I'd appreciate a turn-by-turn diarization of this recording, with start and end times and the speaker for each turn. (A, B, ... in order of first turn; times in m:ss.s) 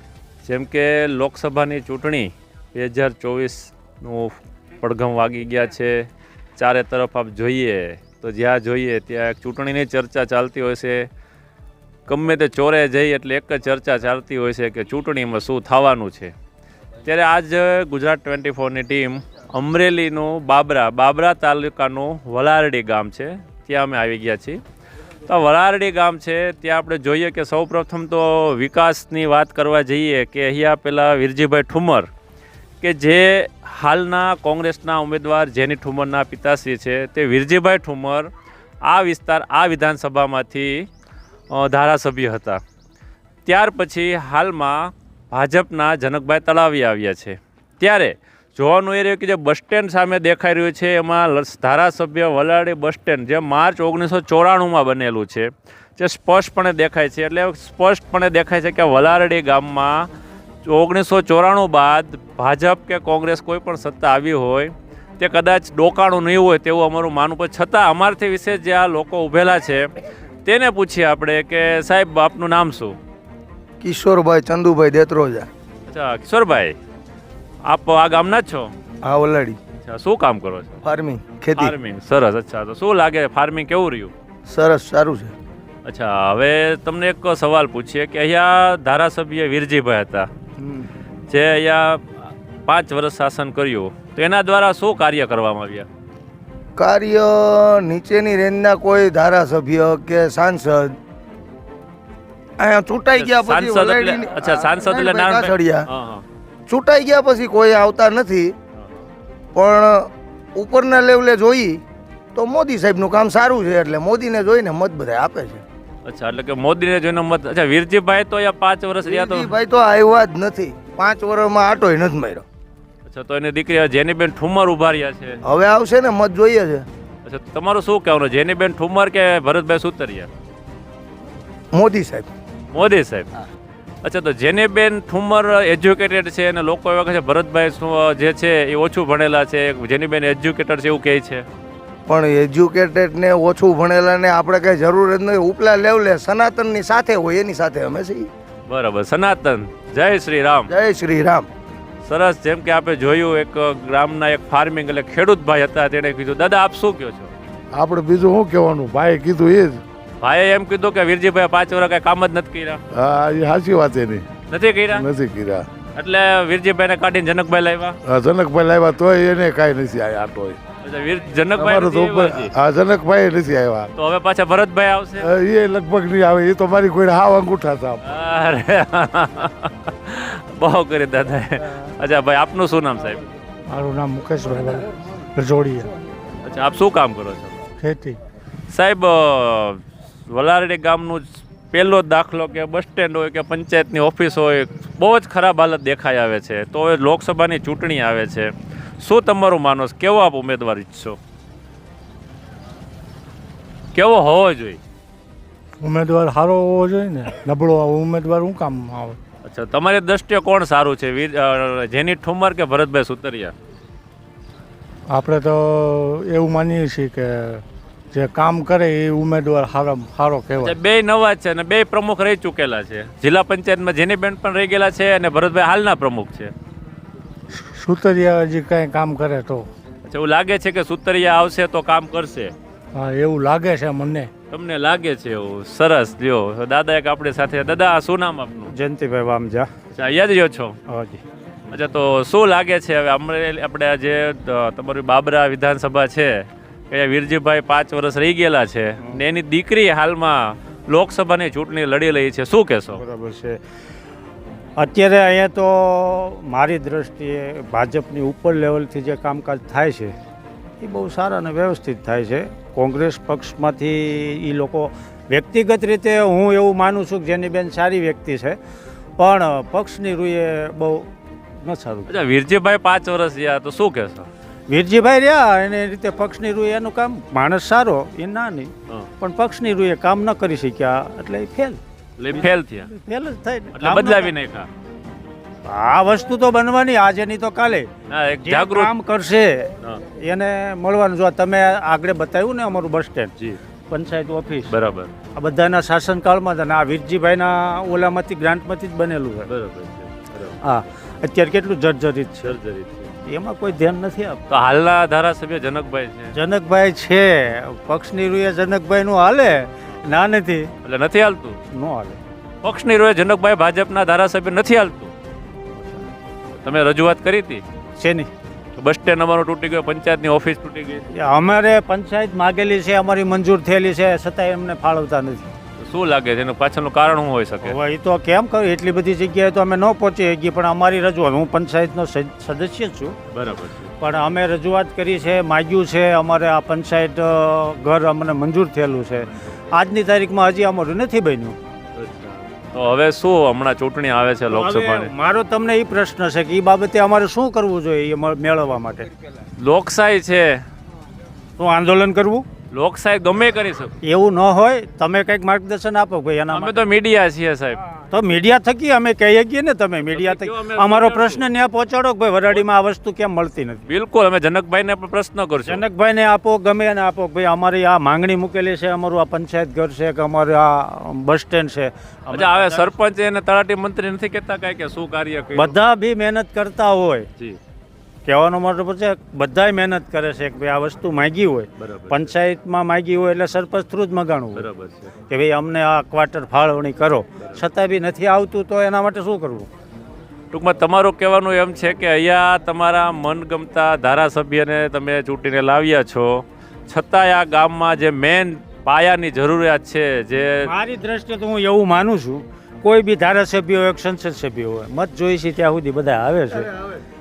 0:00.4-0:11.1 A
0:12.1-0:16.3 A
0:17.0-0:24.6 A
0:25.2-0:32.1 A
0:32.8-0:38.3 A
0:38.8-0:40.9 A
0:41.5-0:42.6 A
0:43.4-1:00.1 A
1:00.6-1:09.9 A
1:10.4-1:13.0 A
1:13.8-1:15.5 B
1:15.8-1:16.8 A
1:17.6-1:18.7 A
1:19.0-1:19.6 B
1:19.8-1:20.8 A
1:20.8-1:21.7 B
1:21.6-1:24.1 A
1:24.5-1:25.3 B
1:25.8-1:30.3 A
1:30.6-1:30.9 B
1:31.3-1:35.9 A
1:36.8-1:41.0 B
1:42.6-1:45.9 B
1:43.1-1:46.2 A
1:46.7-1:48.5 B
1:49.5-1:51.8 B
1:52.3-1:55.6 B
1:56.0-1:59.5 A
1:59.0-2:02.4 B
2:03.0-2:05.4 A
2:05.4-2:06.9 B
2:07.2-2:10.3 A
2:11.7-2:12.3 B
2:12.7-2:13.3 A
2:14.0-2:21.4 A
2:22.1-2:28.3 B
2:28.7-2:30.7 A
2:30.7-2:31.5 B
2:32.0-2:37.3 A
2:37.7-2:39.8 C
2:40.2-2:42.8 A
2:42.9-2:44.3 C
2:44.5-2:45.0 A
2:44.9-2:45.7 C
2:45.9-2:48.0 A
2:48.0-2:50.6 C
2:50.8-2:52.5 A
2:51.6-2:53.9 C
2:54.0-2:55.3 A
2:55.2-2:58.0 C
2:58.0-3:03.2 A
3:03.7-3:05.9 D
3:06.4-3:07.6 A
3:07.8-3:08.2 D
3:08.7-3:21.2 A
3:23.9-3:24.8 A
3:25.8-3:29.2 D
3:29.4-3:33.5 A
3:35.1-3:40.7 D
3:40.6-3:46.5 A
3:47.6-3:49.7 D
3:50.0-3:52.5 A
3:52.9-3:54.3 D
3:54.5-3:58.7 A
3:58.7-3:59.7 E
3:59.9-4:00.8 A
4:00.9-4:01.2 E
4:01.7-4:13.0 A
4:12.9-4:13.6 E
4:14.8-4:20.1 E
4:20.8-4:28.6 E
4:29.2-4:31.1 E
4:31.6-4:32.1 E
4:32.1-4:34.3 A
4:34.7-4:44.3 E
4:42.2-4:42.9 A
4:43.7-4:44.7 A
4:45.6-4:47.9 E
4:48.1-4:48.9 A
4:48.4-4:53.3 E
4:53.9-4:54.7 E
4:54.7-4:55.1 A
4:55.3-4:59.5 E
4:59.4-5:00.6 A
5:00.6-5:02.5 E
5:02.4-5:03.1 A
5:03.2-5:04.4 E
5:04.5-5:06.3 A
5:06.3-5:10.7 E
5:10.8-5:11.6 A
5:11.7-5:12.2 E
5:12.6-5:15.1 A
5:15.7-5:16.0 E
5:16.6-5:17.6 A
5:18.0-5:18.3 E
5:18.8-5:21.1 A
5:21.2-5:25.5 E
5:25.8-5:27.8 A
5:27.6-5:33.2 E
5:33.3-5:33.9 A
5:34.0-5:41.6 E
5:41.9-5:45.1 A
5:44.5-5:49.1 E
5:49.6-5:50.6 A
5:51.6-5:52.4 E
5:52.7-5:54.0 A
5:54.0-5:56.8 E
5:56.5-5:57.8 A
5:58.1-6:03.8 E
6:00.0-6:01.4 A
6:03.8-6:05.8 A
6:05.6-6:12.9 E
6:12.3-6:15.8 A
6:15.5-6:17.3 E
6:18.2-6:24.7 E
6:21.8-6:22.3 A
6:24.5-6:25.1 A
6:25.3-6:29.7 E
6:30.5-6:40.7 A
6:40.6-6:46.7 E